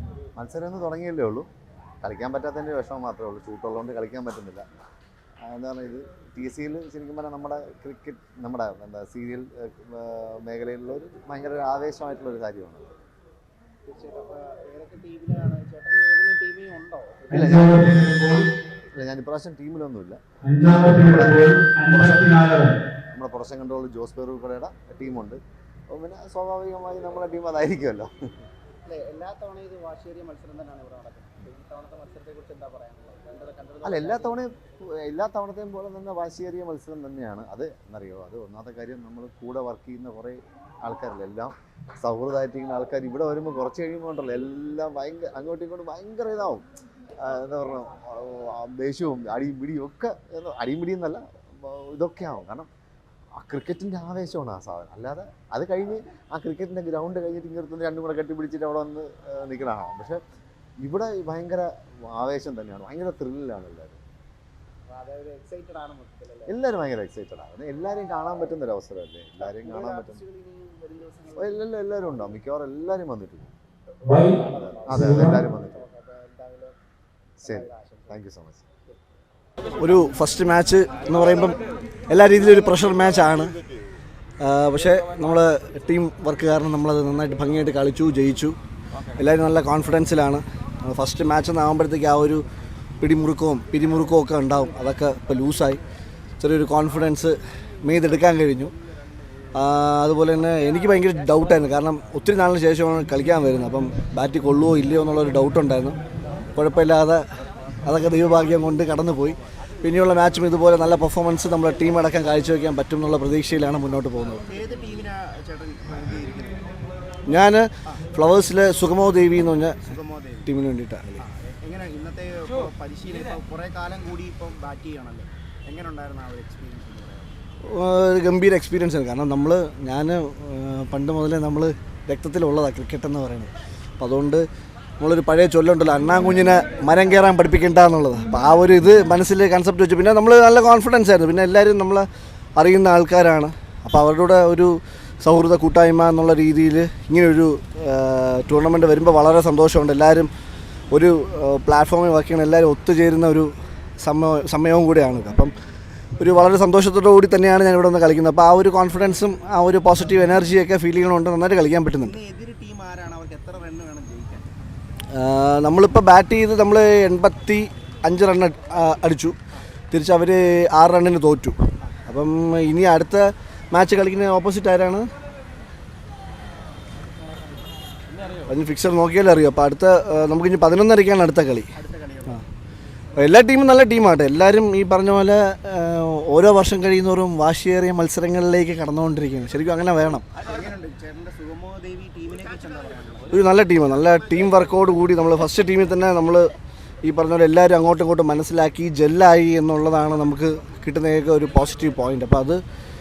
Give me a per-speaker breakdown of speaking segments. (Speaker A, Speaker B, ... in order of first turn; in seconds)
Speaker A: 0.4-1.5, 2.0-4.7, 5.4-12.9, 17.3-22.6, 23.1-25.4, 25.9-28.1, 33.8-46.6, 47.2-52.7, 53.4-60.2, 60.8-64.0, 66.5-70.2, 71.4-73.5, 74.9-75.8, 77.4-78.7
Speaker B: 13.9-17.8, 28.9-34.4, 64.9-66.5, 69.4-71.7, 74.0-76.8, 77.4-78.2, 114.4-116.6, 119.8-120.5, 121.2-127.3, 162.0-164.5, 181.8-182.4, 190.4-193.5
Speaker C: 17.4-18.4, 20.5-22.7, 79.8-81.6, 82.1-83.5, 84.4-88.6, 89.2-92.4, 93.0-95.8, 96.4-98.7, 99.5-106.0, 106.5-107.2, 107.8-114.5, 117.3-119.8, 120.5-121.2, 127.7-134.4, 135.0-150.3, 150.9-155.5, 156.2-162.2, 165.1-169.4, 169.9-175.1, 178.5-181.7, 183.2-190.2, 193.3-196.5, 197.0-202.6